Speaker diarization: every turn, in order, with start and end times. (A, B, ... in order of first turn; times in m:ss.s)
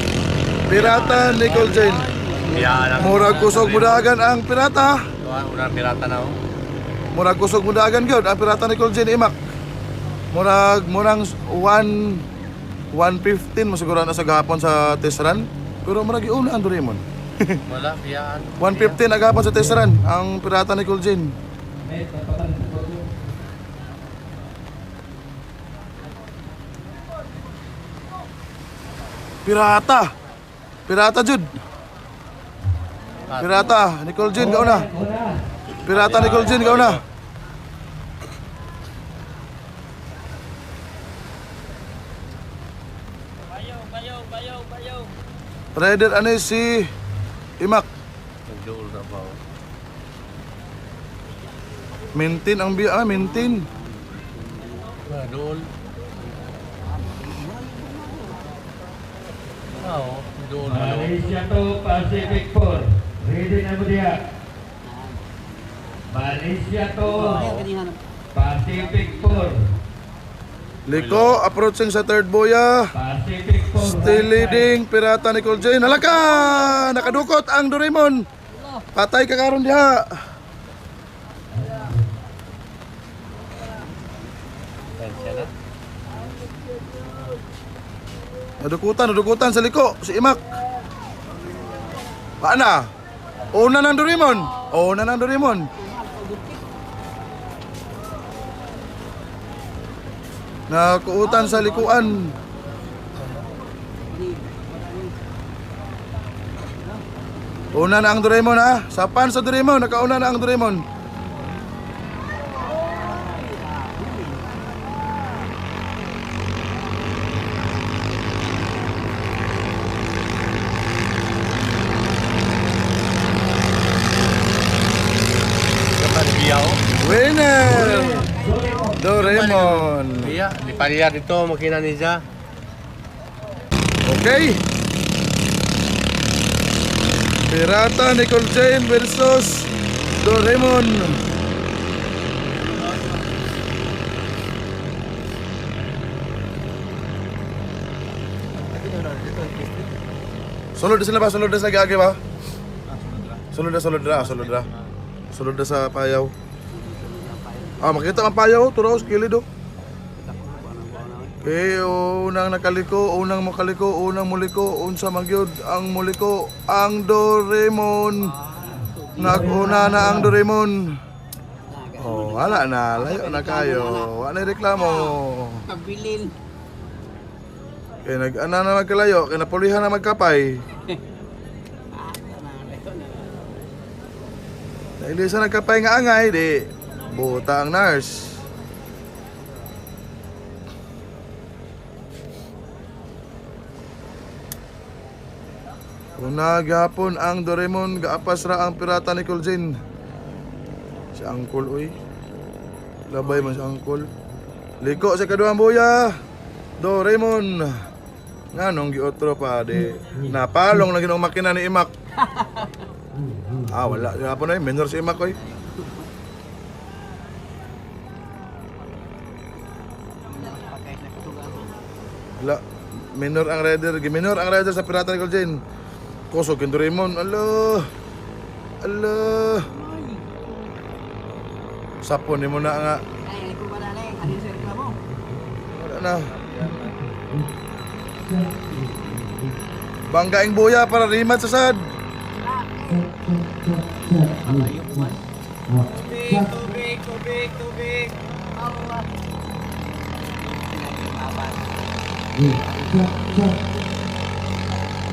0:00.7-0:02.1 A
0:00.7-0:01.8 B
0:01.2-0:03.7 C
0:02.5-0:04.1 B
0:03.0-0:05.0 A
0:05.2-0:06.4 B
0:07.1-0:09.4 A
0:10.3-0:12.2 A
0:12.9-0:17.6 A
0:17.7-0:19.0 B
0:18.6-0:21.3 A
0:21.8-0:23.1 D
0:29.4-0:30.1 A
0:30.9-0:31.5 A
0:33.3-0:33.8 B
0:33.4-0:34.9 A
0:34.4-0:35.4 D
0:35.8-0:37.0 A
0:35.8-0:37.0 B
0:45.8-0:46.8 A
0:47.6-0:47.8 A
0:48.5-0:49.4 B
0:52.1-0:53.6 A
0:53.1-0:55.0 C
0:55.1-0:55.7 B
0:56.3-0:58.5 C
0:59.8-1:01.3 B
1:00.6-1:04.2 D
1:04.8-1:06.0 C
1:06.1-1:07.4 D
1:07.0-1:08.0 C
1:07.2-1:07.7 B
1:08.3-1:09.6 D
1:10.9-1:12.9 A
1:10.9-1:11.4 B
1:12.9-1:14.7 D
1:13.8-1:18.2 A
1:18.9-1:20.0 A
1:21.5-1:22.0 D
1:25.0-1:25.5 B
1:28.6-1:30.4 A
1:32.4-1:32.8 A
1:33.5-1:35.7 A
1:35.8-1:36.7 C
1:40.7-1:42.3 A
1:41.3-1:42.1 C
1:44.1-1:45.2 C
1:47.7-1:50.8 A
1:52.8-1:54.6 C
2:06.0-2:06.8 B
2:07.0-2:08.3 A
2:07.6-2:09.0 D
2:07.8-2:09.0 C
2:09.0-2:10.4 A
2:09.2-2:12.2 B
2:14.0-2:14.6 A
2:17.4-2:21.2 A
2:30.8-2:32.2 A
2:33.5-2:34.7 A
2:35.3-2:36.3 A
2:36.7-2:38.4 C
2:37.8-2:39.4 A
2:40.2-2:41.4 C
2:41.4-2:48.3 A
2:48.2-2:50.2 C
2:49.2-2:50.9 A
2:49.2-2:50.4 D
2:51.6-2:54.1 C
2:52.0-2:55.6 A
2:54.6-2:56.3 C
2:58.0-3:00.6 A
3:01.9-3:03.4 C
3:05.0-3:08.4 A
3:16.2-3:19.7 A
3:21.1-3:21.9 A
3:23.1-3:24.1 A
3:24.8-3:26.2 A
3:26.8-3:27.8 A
3:28.5-3:31.9 A
3:32.2-3:32.7 C
3:33.7-3:35.4 A
3:35.4-3:36.1 C
3:40.3-3:41.8 C
3:43.1-3:45.6 A
3:46.3-3:47.9 A
3:48.8-3:49.7 A
3:49.6-3:50.3 C
3:52.0-3:53.0 A
3:53.2-3:55.0 C
3:55.7-3:56.3 A
4:00.1-4:01.8 A
4:02.4-4:03.2 C
4:04.1-4:05.2 C
4:05.9-4:09.1 C
4:10.4-4:11.9 C
4:12.4-4:13.5 C